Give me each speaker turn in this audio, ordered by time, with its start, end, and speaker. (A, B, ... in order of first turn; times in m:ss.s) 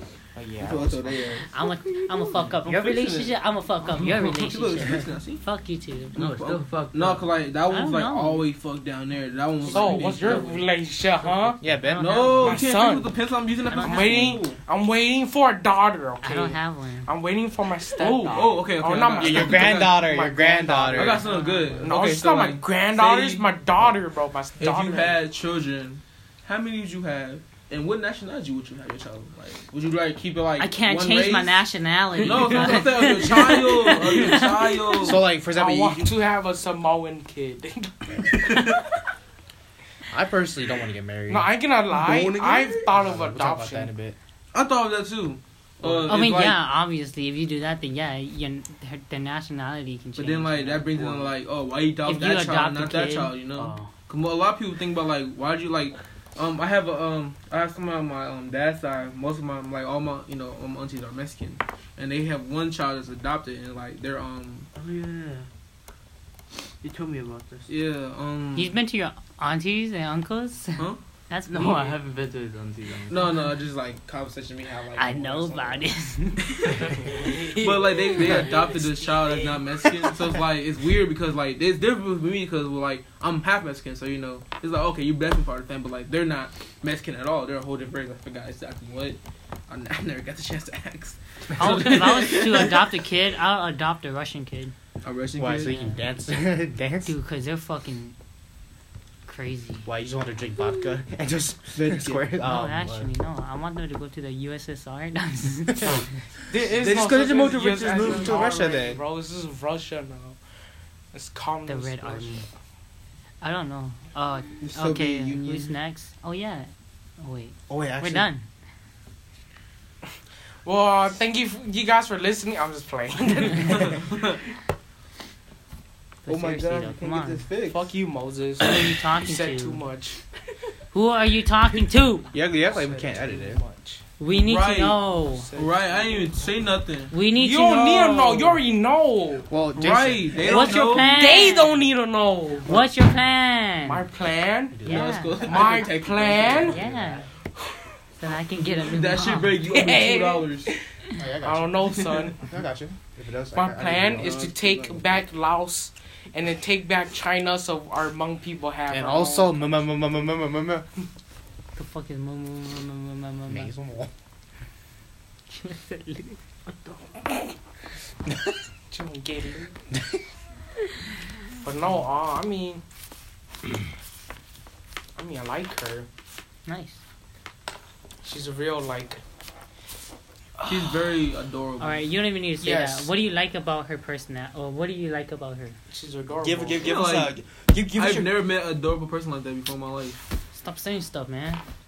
0:00.3-0:01.2 A
0:00.4-0:00.6 B
0:00.6-0:05.4 C
0:01.5-0:06.2 D
0:06.1-0:10.6 C
0:06.2-0:07.3 E
0:07.7-0:08.4 D
0:09.6-0:11.6 B
0:09.6-0:10.5 D
0:11.6-0:12.6 A
0:11.8-0:12.6 D
0:12.0-0:14.6 C
0:12.4-0:13.1 B
0:13.7-0:14.4 D
0:13.8-0:21.2 B
0:16.2-0:17.1 D
0:18.0-0:20.1 C
0:19.2-0:21.2 A
0:20.9-0:23.8 C
0:21.2-0:21.9 D
0:21.8-0:25.2 B
0:24.6-0:31.6 C
0:30.6-0:35.2 D
0:32.2-0:35.2 C
0:35.0-0:36.1 A
0:35.5-0:38.5 B
0:40.1-0:41.5 A
0:41.3-0:43.9 B
0:41.9-0:42.8 C
0:42.7-0:44.2 A
0:44.5-0:46.6 C
0:45.8-0:46.1 A
0:46.0-0:51.3 D
0:50.2-1:04.7 C
0:52.0-0:53.4 D
0:53.6-0:53.9 E
1:04.7-1:05.4 E
1:06.8-1:07.7 E
1:07.7-1:08.8 C
1:08.6-1:12.0 D
1:11.5-1:13.4 E
1:13.1-1:15.9 C
1:15.0-1:16.9 D
1:16.4-1:16.9 C
1:16.7-1:18.5 B
1:17.5-1:32.9 C
1:18.1-1:18.5 D
1:31.6-1:34.7 D
1:35.0-1:35.8 C
1:35.3-1:37.2 A
1:35.6-1:36.0 D
1:37.0-1:38.1 D
1:39.2-1:39.9 D
1:39.8-1:43.1 A
1:41.7-1:42.2 C
1:42.4-1:46.0 D
1:46.5-1:50.4 B
1:46.8-1:48.3 C
1:47.0-1:49.0 A
1:51.1-1:52.4 B
1:51.7-1:52.4 D
1:53.4-1:58.4 D
1:54.6-1:55.7 C
1:57.7-1:58.3 A
2:00.6-2:04.0 B
2:03.8-2:04.3 C
2:06.2-2:07.4 D
2:06.3-2:07.8 C
2:07.6-2:10.2 B
2:08.6-2:09.8 D
2:10.9-2:12.3 D
2:12.3-2:13.6 A
2:14.2-2:15.5 D
2:14.4-2:17.1 C
2:15.4-2:16.0 B
2:17.1-2:18.3 D
2:17.3-2:19.5 B
2:18.1-2:18.6 C
2:19.5-2:20.4 A
2:19.8-2:21.2 C
2:20.4-2:21.8 D
2:20.9-2:22.7 B
2:22.6-2:24.0 D
2:23.8-2:26.8 B
2:24.7-2:25.2 A
2:24.8-2:25.6 D
2:24.8-2:26.8 C
2:26.7-2:27.2 D
2:26.7-2:27.2 A
2:28.2-2:29.6 D
2:28.8-2:30.7 C
2:29.7-2:30.8 B
2:31.2-2:34.7 A
2:31.4-2:32.4 B
2:32.0-2:32.3 C
2:33.5-2:39.9 B
2:34.2-2:35.0 C
2:38.9-2:40.9 A
2:41.8-2:43.7 D
2:43.5-2:44.1 A
2:45.5-2:47.0 D
2:48.9-2:49.8 B
2:51.6-2:52.8 B
2:55.2-2:56.1 B
2:56.6-2:57.0 D
2:58.2-2:59.2 B
3:00.6-3:00.9 B
3:00.6-3:02.1 C
3:01.8-3:05.8 D
3:02.6-3:03.1 A
3:05.9-3:06.8 B
3:06.4-3:08.4 A
3:06.8-3:07.4 C
3:07.9-3:10.2 C
3:10.5-3:11.6 D